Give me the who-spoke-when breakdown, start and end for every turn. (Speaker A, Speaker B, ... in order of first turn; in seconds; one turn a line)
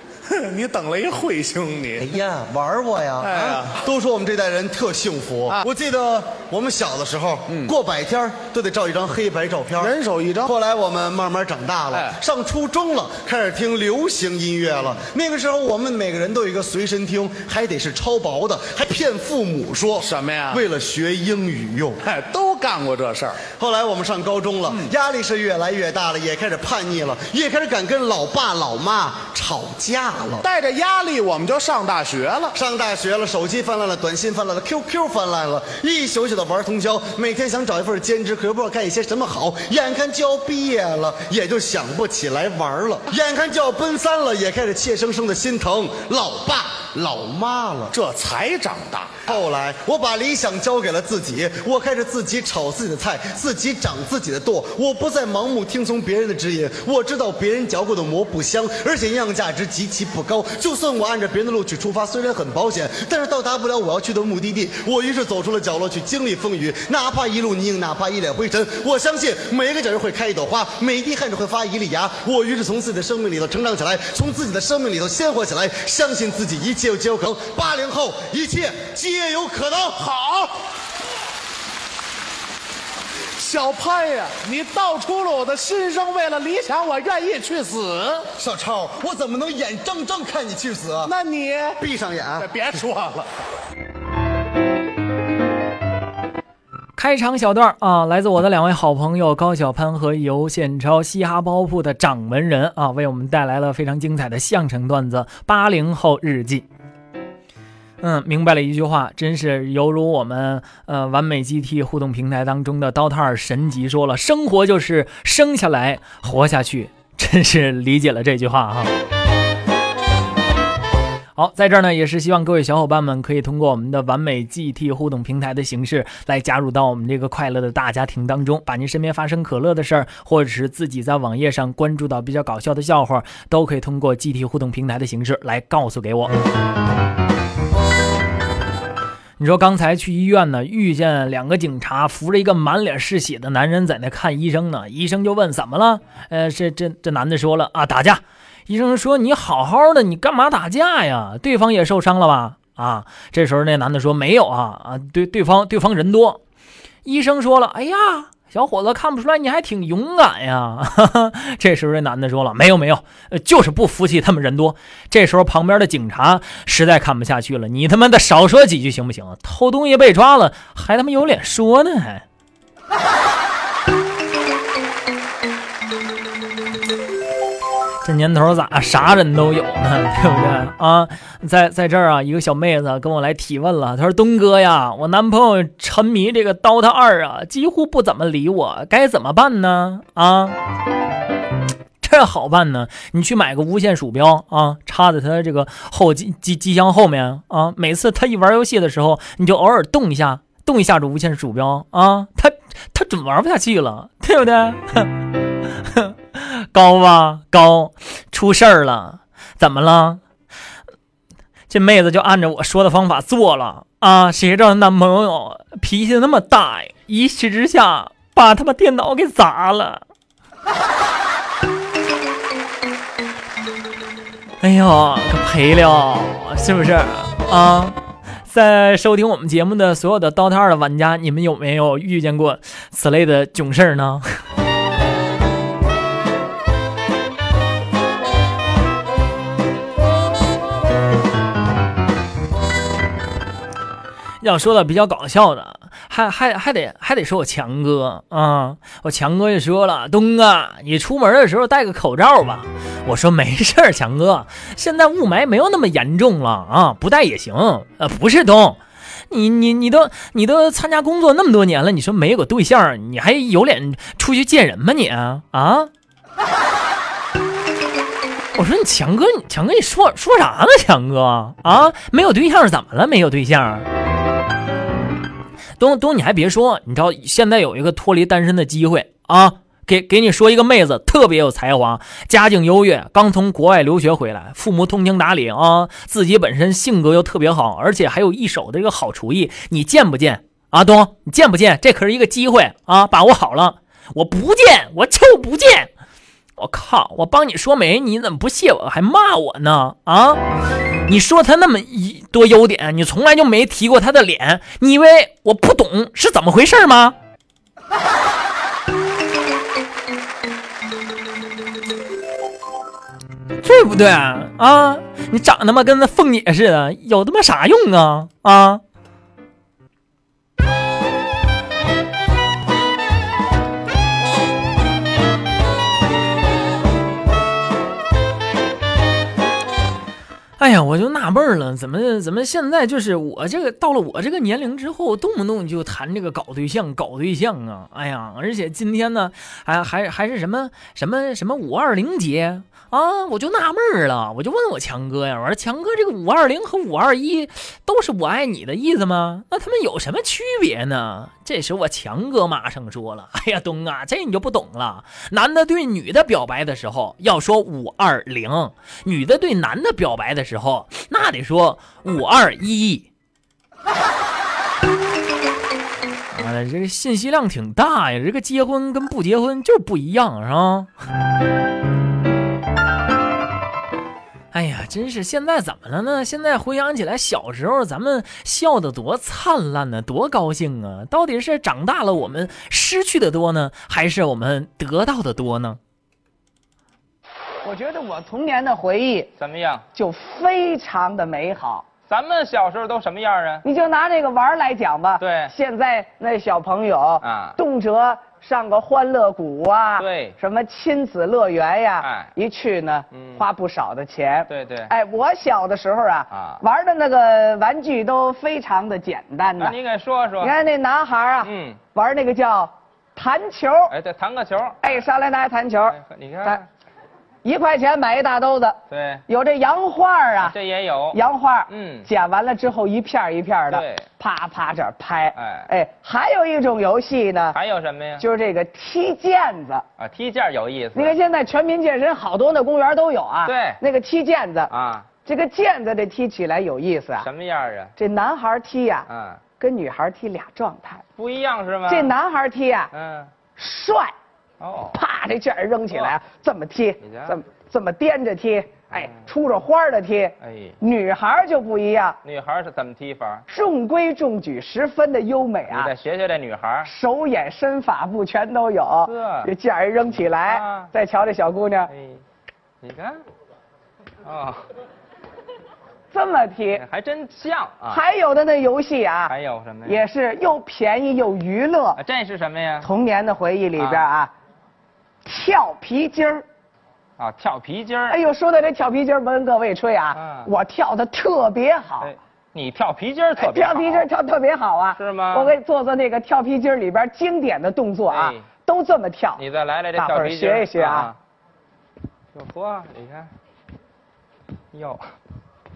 Speaker A: 0.3-2.1
Speaker B: 2.0-22.0
Speaker A: 3.2-3.8
Speaker A: 9.8-10.5
Speaker A: 20.0-20.6
Speaker A: 22.0-23.4
Speaker B: 23.4-30.4
Speaker A: 30.4-32.5
Speaker B: 32.5-47.9
Speaker A: 47.9-49.2
Speaker B: 49.3-80.0
Speaker A: 80.0-80.5
Speaker A: 83.4-88.3
Speaker B: 88.4-91.1
Speaker A: 91.0-91.8
Speaker B: 91.8-92.5
Speaker A: 92.4-93.3
Speaker C: 97.0-106.6
Speaker C: 108.0-118.9
Speaker C: 121.3-136.3
Speaker C: 139.4-156.4
Speaker C: 157.0-172.2
Speaker C: 178.0-190.6
Speaker C: 192.0-205.2
Speaker C: 205.8-210.2
Speaker C: 211.7-220.0
Speaker C: 224.6-227.9
Speaker C: 228.5-234.3
Speaker C: 244.4-258.8
Speaker C: 259.3-265.9
Speaker C: 268.6-273.9
Speaker C: 275.8-295.9
Speaker C: 296.6-300.4
Speaker C: 301.1-307.1
Speaker C: 313.6-318.8
Speaker C: 330.6-363.1
Speaker C: 366.3-370.9
Speaker C: 374.5-385.8
Speaker D: 387.6-389.3
Speaker E: 389.4-389.8
Speaker D: 389.9-391.9
Speaker E: 392.1-393.6
Speaker D: 393.6-409.8
Speaker E: 395.2-395.5
Speaker E: 397.2-397.6
Speaker E: 400.0-400.4
Speaker E: 402.0-402.3
Speaker E: 403.1-403.4
Speaker E: 404.5-404.9
Speaker E: 406.3-406.6
Speaker E: 409.6-410.5
Speaker D: 410.4-413.9
Speaker E: 411.4-411.8
Speaker E: 413.9-415.1
Speaker D: 414.8-416.6
Speaker E: 415.9-416.6
Speaker D: 417.4-420.5
Speaker E: 418.9-419.2
Speaker E: 420.4-422.1
Speaker D: 421.1-427.6
Speaker E: 423.7-424.1
Speaker E: 425.3-425.7
Speaker E: 427.5-428.2
Speaker D: 428.2-429.8
Speaker E: 430.0-431.2
Speaker D: 430.9-434.7
Speaker E: 433.4-433.8
Speaker E: 434.7-435.1
Speaker D: 435.2-437.3
Speaker E: 437.2-437.9
Speaker D: 438.0-439.1
Speaker E: 439.1-439.4
Speaker D: 439.6-441.0
Speaker E: 441.2-442.1
Speaker D: 441.9-442.9
Speaker E: 442.9-443.3
Speaker D: 443.6-444.1
Speaker E: 444.6-445.0
Speaker D: 444.9-452.2
Speaker E: 445.9-446.1
Speaker E: 447.0-447.4
Speaker E: 448.9-449.2
Speaker E: 450.4-450.8
Speaker E: 452.2-453.4
Speaker D: 453.5-455.9
Speaker E: 455.7-456.9
Speaker D: 456.8-461.9
Speaker E: 459.0-459.5
Speaker E: 460.4-460.9
Speaker E: 461.9-462.2
Speaker E: 462.8-463.2
Speaker E: 464.2-464.6
Speaker D: 466.1-466.8
Speaker E: 466.7-468.0
Speaker D: 467.9-469.3
Speaker E: 469.3-470.0
Speaker D: 469.9-472.0
Speaker E: 472.0-472.9
Speaker D: 472.8-474.3
Speaker E: 473.8-474.1
Speaker D: 475.2-476.4
Speaker E: 477.2-478.2
Speaker D: 478.1-482.1
Speaker E: 480.1-480.5
Speaker E: 482.0-484.1
Speaker D: 483.4-489.4
Speaker E: 484.9-485.6
Speaker E: 488.1-488.4
Speaker E: 489.4-491.1
Speaker D: 489.9-491.1
Speaker E: 492.3-493.3
Speaker E: 494.7-495.1